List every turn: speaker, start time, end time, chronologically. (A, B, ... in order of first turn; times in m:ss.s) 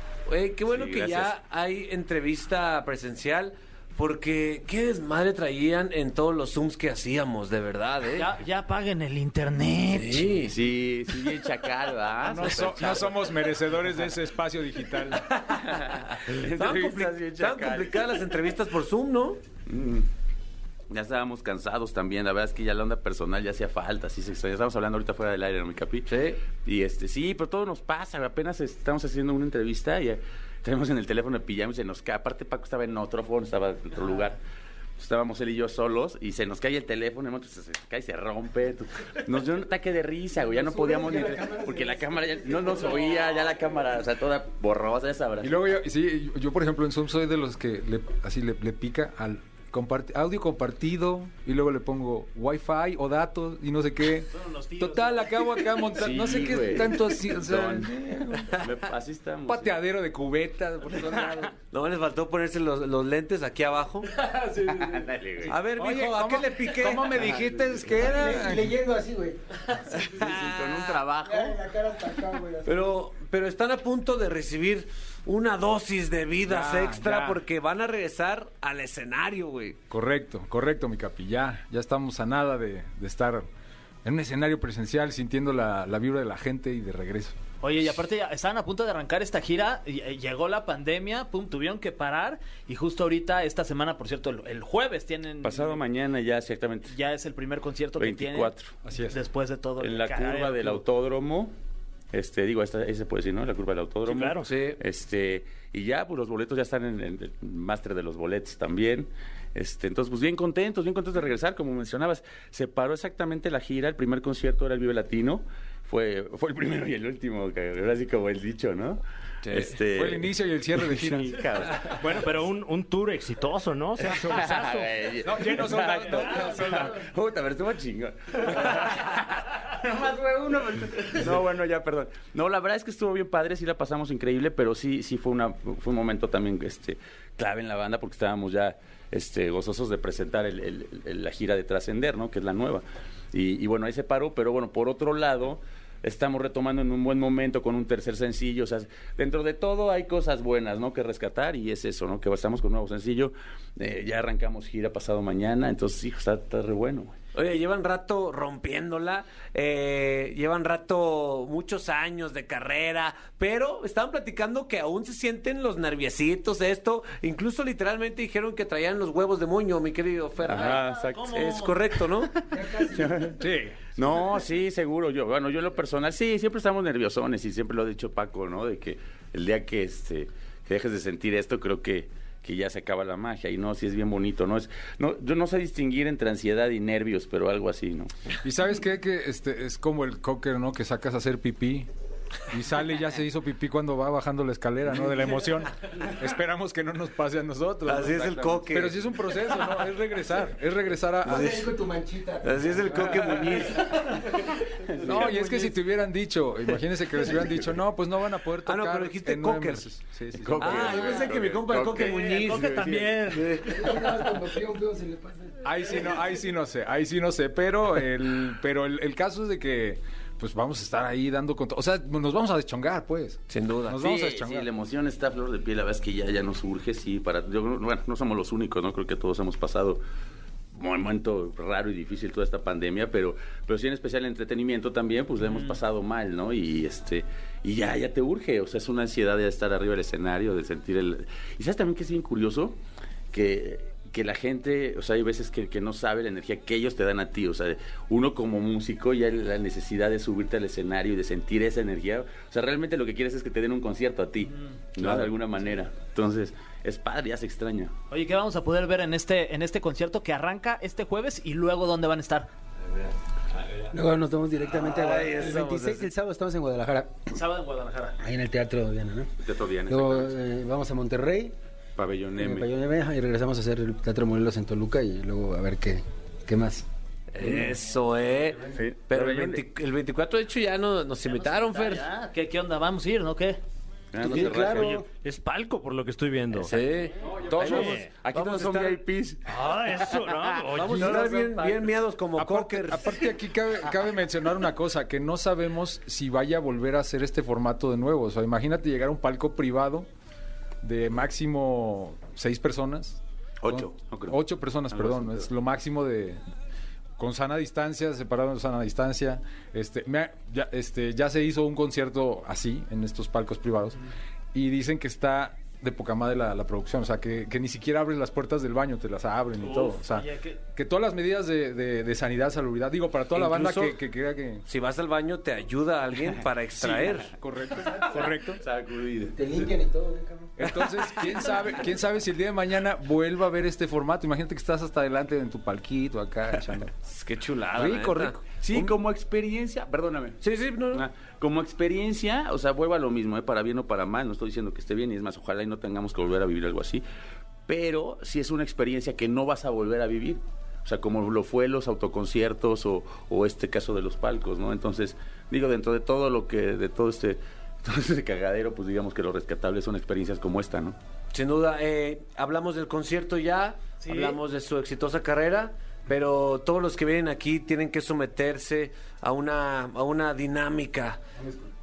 0:00.3-0:08.3 A
0:00.6-0:01.3 B
0:08.2-0:10.5 C
0:09.9-0:10.6 A
0:10.4-0:13.4 B
0:12.2-0:15.3 D
0:15.5-0:18.3 B
0:16.3-0:19.4 A
0:19.7-0:20.0 B
0:20.9-0:34.4 B
0:26.1-0:26.4 A
0:35.0-0:45.5 B
0:40.4-0:43.4 E
0:45.4-0:58.6 D
0:54.3-0:55.2 C
0:56.0-0:59.8 B
0:59.5-1:01.5 D
1:01.7-1:04.1 A
1:04.7-1:05.6 B
1:05.5-1:07.2 A
1:05.8-1:08.7 D
1:08.0-1:09.4 E
1:10.0-1:11.0 A
1:10.0-1:11.6 B
1:11.2-1:12.9 E
1:12.6-1:19.8 A
1:16.4-1:17.4 D
1:19.9-1:23.5 D
1:24.0-1:27.4 D
1:27.6-1:35.8 C
1:35.4-1:36.9 B
1:36.9-1:38.5 C
1:38.0-1:38.7 B
1:38.8-1:39.2 D
1:39.1-1:40.8 C
1:39.8-1:41.5 B
1:42.1-2:00.3 B
1:44.0-1:44.5 F
1:44.4-1:44.8 A
1:59.4-1:59.7 A
1:59.9-2:01.7 D
2:00.8-2:02.0 B
2:01.9-2:04.9 F
2:04.2-2:37.2 B
2:05.2-2:07.0 D
2:37.3-2:52.4 A
2:50.4-2:51.4 B
2:50.5-2:51.8 C
2:52.5-2:53.3 E
2:52.8-2:53.4 B
2:53.4-2:53.8 D
2:54.0-3:08.1 B
3:08.4-3:11.9 D
3:12.5-3:21.6 D
3:17.8-3:19.0 A
3:21.2-3:23.1 E
3:21.3-3:21.7 A
3:22.4-3:24.0 A
3:22.9-3:23.2 D
3:24.9-3:25.6 B
3:25.0-3:30.9 D
3:28.6-3:29.9 A
3:30.4-3:33.3 B
3:30.6-3:34.0 A
3:32.0-3:33.5 C
3:33.6-3:35.6 E
3:35.6-3:44.7 D
3:43.5-3:44.0 A
3:44.0-3:50.0 B
3:50.7-4:02.8 B
4:03.3-4:17.9 B
4:18.1-4:22.5 C
4:23.9-4:27.2 E
4:24.7-4:26.1 A
4:27.3-4:28.2 C
4:28.2-4:29.3 E
4:29.4-4:30.4 B
4:29.9-4:31.5 E
4:32.0-4:32.7 B
4:32.4-4:36.8 E
4:37.3-4:42.0 A
4:38.7-4:39.6 B
4:41.3-4:43.6 C
4:44.1-4:45.0 B
4:44.2-4:45.1 E
4:44.7-4:46.8 F
4:46.6-4:49.0 A
4:47.5-4:50.0 B
4:47.6-4:48.1 F
4:49.4-4:51.5 F
4:50.7-4:53.2 A
4:50.9-4:52.0 B
4:52.4-5:00.1 D
5:00.8-5:06.4 D
5:03.6-5:05.5 B
5:07.2-5:14.0 D
5:14.5-5:24.6 D
5:19.6-5:20.6 C
5:23.3-5:24.0 A
5:24.6-5:27.3 A
5:26.8-5:28.6 D
5:28.1-5:29.7 B
5:29.3-5:30.5 E
5:30.6-5:36.9 D
5:37.1-5:38.9 A
5:37.7-5:38.4 D
5:38.5-5:40.4 B
5:40.4-5:41.0 A
5:40.9-5:47.0 B
5:47.7-6:01.0 B
6:01.3-6:11.2 A
6:04.0-6:04.4 C